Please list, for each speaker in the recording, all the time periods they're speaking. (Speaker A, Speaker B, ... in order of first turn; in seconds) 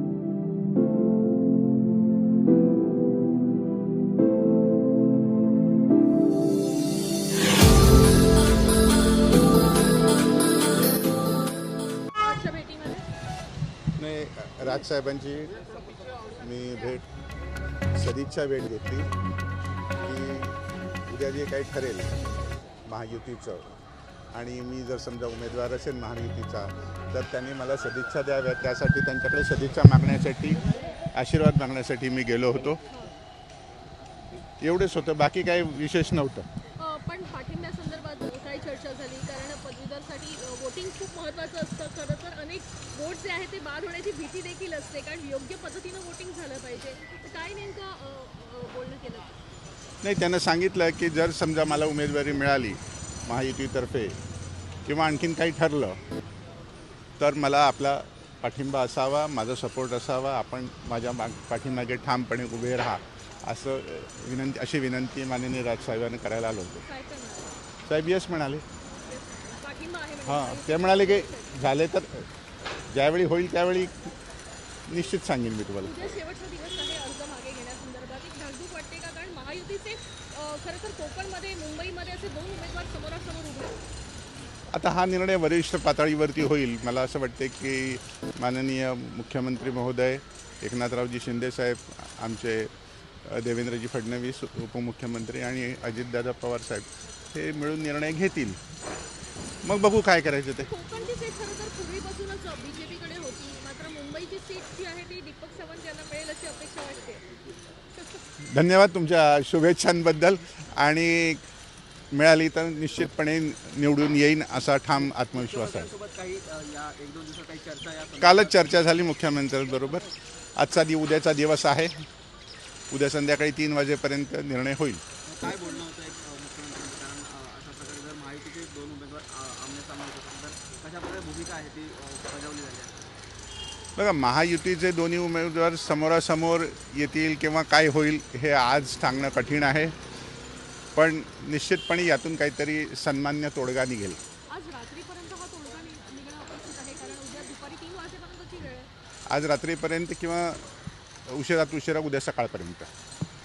Speaker A: 12.2-13.1, 36.8-49.3, 66.8-67.6, 69.0-71.7, 75.8-83.8, 100.7-107.2, 144.5-148.9
Speaker B: 14.0-15.5, 16.4-17.0, 17.9-19.1, 20.0-22.1, 22.9-23.7, 24.3-30.6, 31.1-32.8, 34.6-36.5, 50.0-54.1, 54.9-56.0, 57.2-66.8, 67.8-68.6, 70.2-72.2, 72.9-74.0, 74.9-76.2, 84.7-92.7, 93.2-98.6, 99.6-100.7, 108.5-111.4, 112.1-115.9, 118.2-122.0, 122.9-125.0, 133.9-139.9, 140.9-144.2, 149.3-150.6, 151.3-152.9
Speaker C: 115.1-118.6, 125.2-132.9